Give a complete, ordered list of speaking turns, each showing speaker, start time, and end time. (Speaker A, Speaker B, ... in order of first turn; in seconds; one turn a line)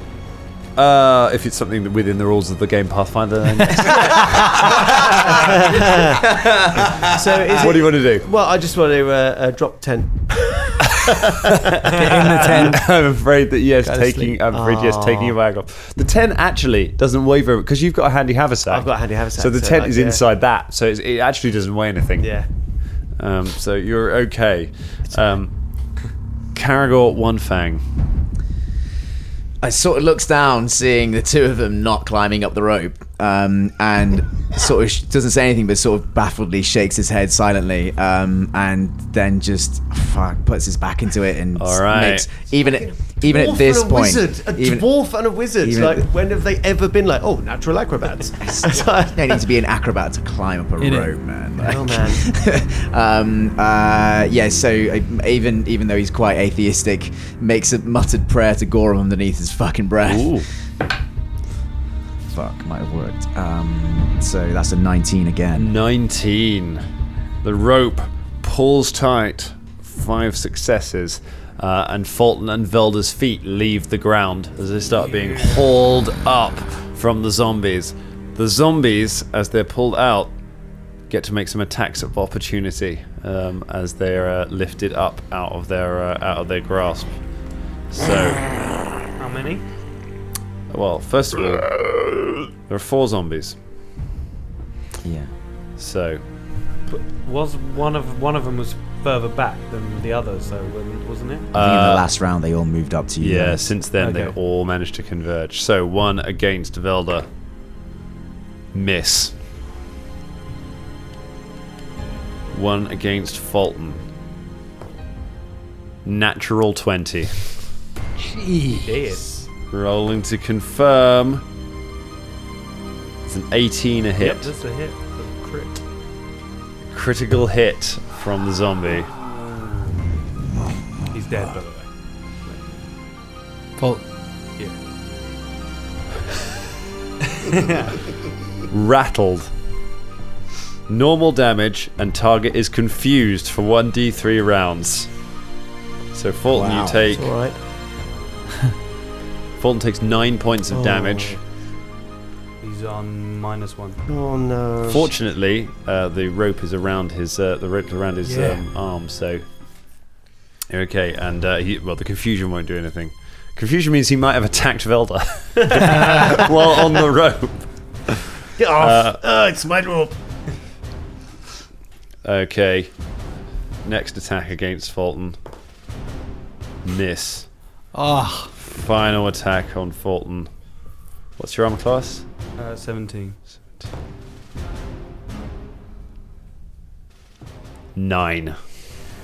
Speaker A: 0.8-6.8
Speaker B: 3.7-6.4
Speaker B: 7.0-12.7
Speaker A: 7.5-8.3
Speaker A: 10.9-22.3
Speaker C: 11.9-12.8
Speaker C: 13.8-14.4
Speaker B: 14.5-15.4
Speaker B: 18.7-20.2
Speaker B: 22.2-22.5
Speaker A: 23.2-25.5
Speaker A: 26.6-27.8
Speaker D: 29.6-44.9
Speaker A: 41.6-42.3
Speaker B: 42.6-49.4
Speaker D: 45.6-46.1
Speaker D: 48.4-60.5
Speaker C: 50.8-51.1
Speaker B: 51.6-52.2
Speaker A: 60.1-60.5
Speaker D: 62.3-65.7
Speaker A: 65.6-66.8
Speaker A: 67.4-80.3
Speaker E: 75.2-75.6
Speaker A: 81.1-87.2
Speaker A: 87.9-88.5
Speaker E: 89.2-89.6
Speaker A: 90.7-91.8
Speaker A: 92.7-93.6
Speaker D: 95.0-95.3
Speaker A: 95.8-96.2
Speaker E: 96.9-101.5
Speaker A: 101.5-102.0
Speaker D: 101.5-103.7
Speaker A: 103.2-107.3
Speaker E: 104.0-104.4
Speaker A: 108.7-109.3
Speaker A: 112.5-114.0
Speaker A: 116.0-117.4
Speaker C: 118.2-119.0
Speaker E: 118.8-119.5
Speaker A: 119.7-121.4
Speaker A: 123.2-124.5
Speaker E: 124.2-125.8
Speaker A: 126.9-129.1
Speaker E: 129.2-129.8
Speaker E: 131.1-132.7
Speaker C: 133.8-134.1
Speaker E: 137.4-138.0
Speaker A: 138.7-139.5
Speaker A: 140.9-145.1
Speaker A: 146.1-147.3
Speaker D: 146.7-147.0
Speaker B: 147.0-147.6
Speaker A: 149.6-151.4
Speaker B: 150.7-151.4
Speaker E: 152.6-154.0
Speaker B: 154.1-155.1
Speaker A: 154.9-159.4
Speaker A: 160.7-168.3
Speaker B: 166.2-166.5
Speaker B: 168.6-170.2
Speaker A: 168.8-169.2
Speaker A: 172.2-172.9
Speaker A: 173.8-175.4
Speaker A: 176.8-177.5
Speaker C: 177.9-178.5
Speaker A: 178.6-180.5
Speaker A: 181.4-182.2
Speaker E: 182.6-183.4
Speaker A: 183.6-183.9
Speaker A: 187.9-188.6